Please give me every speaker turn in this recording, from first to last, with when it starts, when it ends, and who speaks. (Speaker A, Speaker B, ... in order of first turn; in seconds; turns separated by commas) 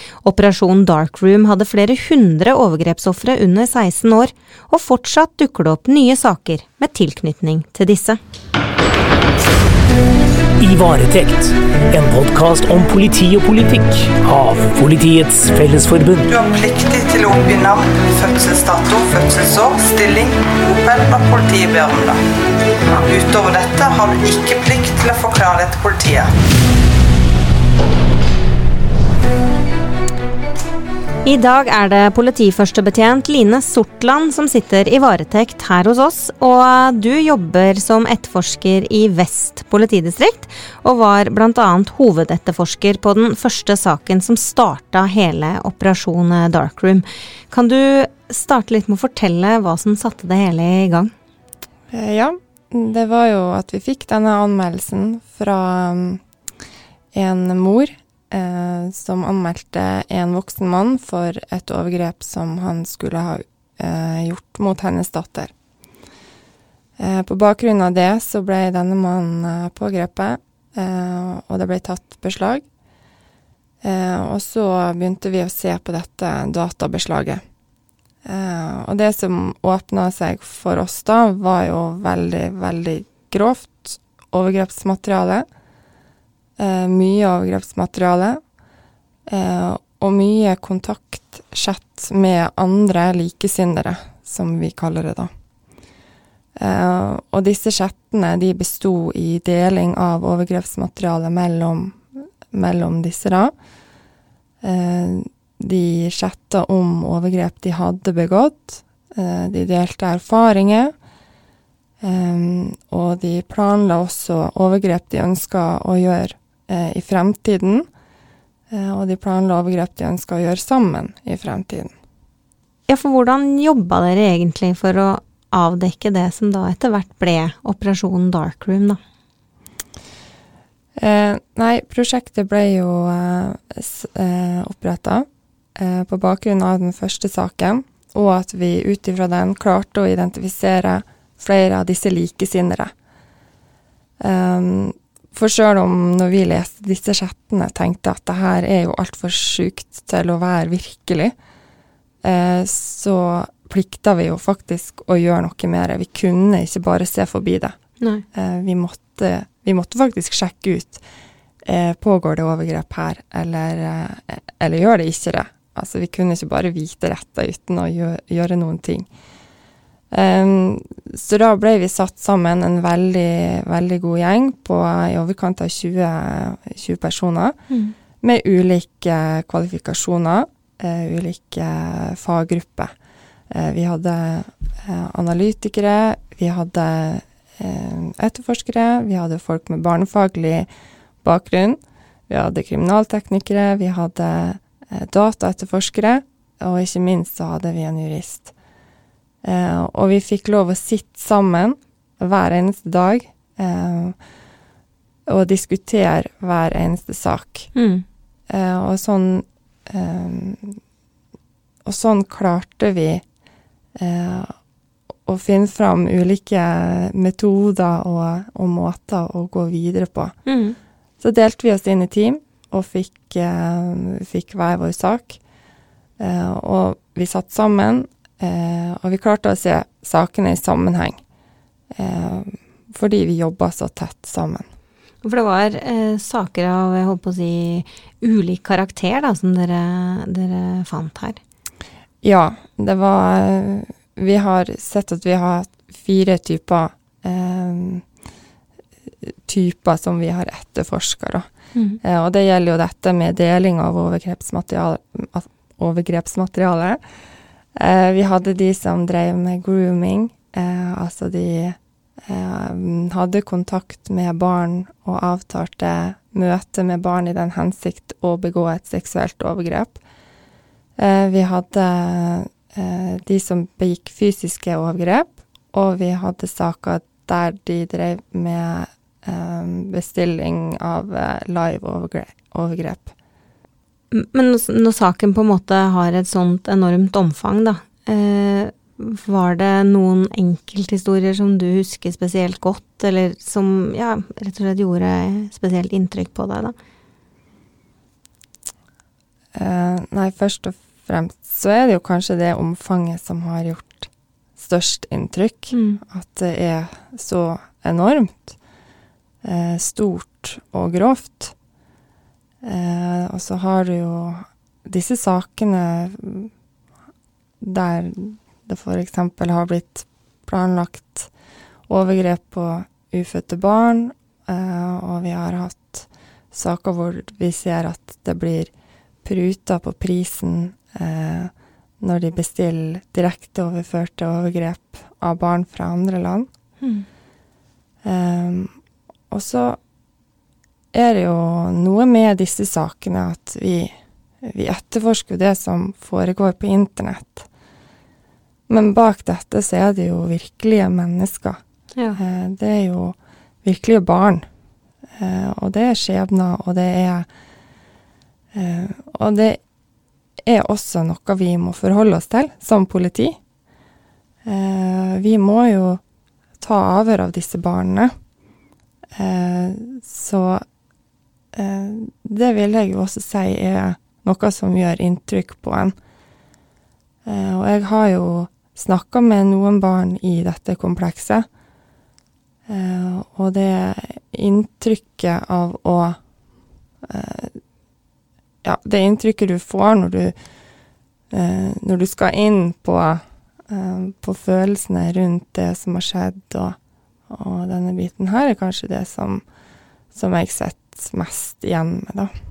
Speaker A: 0.2-8.2, Speaker B: 10.6-16.3, Speaker C: 16.3-22.2, Speaker C: 23.0-26.3, Speaker A: 31.2-51.1, Speaker D: 51.9-56.2, Speaker D: 57.1-65.5, Speaker D: 67.0-72.7, Speaker D: 73.8-77.4, Speaker D: 78.2-85.5, Speaker D: 86.6-88.4, Speaker D: 89.3-95.3, Speaker D: 96.6-103.5, Speaker D: 104.6-111.0, Speaker D: 112.0-117.9, Speaker D: 118.7-121.9, Speaker A: 122.9-129.0, Speaker D: 131.0-142.9, Speaker D: 144.2-151.3, Speaker D: 152.2-157.8, Speaker A: 158.0-158.2, Speaker D: 158.3-161.0, Speaker D: 161.7-169.1, Speaker D: 170.1-177.6, Speaker A: 177.7-177.9, Speaker D: 178.2-182.9, Speaker D: 183.5-190.7, Speaker D: 191.2-198.5, Speaker D: 199.4-204.2, Speaker D: 205.3-207.7, Speaker A: 207.8-208.1, Speaker D: 208.5-210.8, Speaker D: 211.8-213.2, Speaker D: 213.9-214.6, Speaker D: 215.3-220.4, Speaker A: 220.5-220.8, Speaker D: 221.2-225.4, Speaker D: 226.2-231.2, Speaker D: 231.9-234.7, Speaker A: 235.2-241.4, Speaker D: 242.2-248.1, Speaker D: 249.1-251.5, Speaker A: 251.8-252.0, Speaker D: 252.0-257.0, Speaker D: 257.8-270.0, Speaker D: 271.0-283.1, Speaker A: 284.1-296.8, Speaker D: 299.5-308.6, Speaker A: 305.7-306.0, Speaker D: 309.4-311.5, Speaker D: 312.6-316.5, Speaker D: 317.6-321.3, Speaker D: 321.9-328.7, Speaker D: 329.2-336.5, Speaker A: 336.8-337.1, Speaker D: 338.0-338.7, Speaker D: 339.3-339.8, Speaker D: 340.9-347.5, Speaker D: 348.7-351.6, Speaker D: 352.1-354.5, Speaker D: 355.2-357.3, Speaker D: 358.5-359.6, Speaker D: 360.4-363.4, Speaker D: 364.4-366.0, Speaker D: 366.6-368.1, Speaker D: 369.1-370.6, Speaker D: 371.5-375.9, Speaker D: 377.2-381.5, Speaker D: 382.7-386.2, Speaker D: 387.1-387.6, Speaker D: 388.6-390.4, Speaker D: 391.3-396.8, Speaker D: 397.3-399.4, Speaker D: 400.1-402.3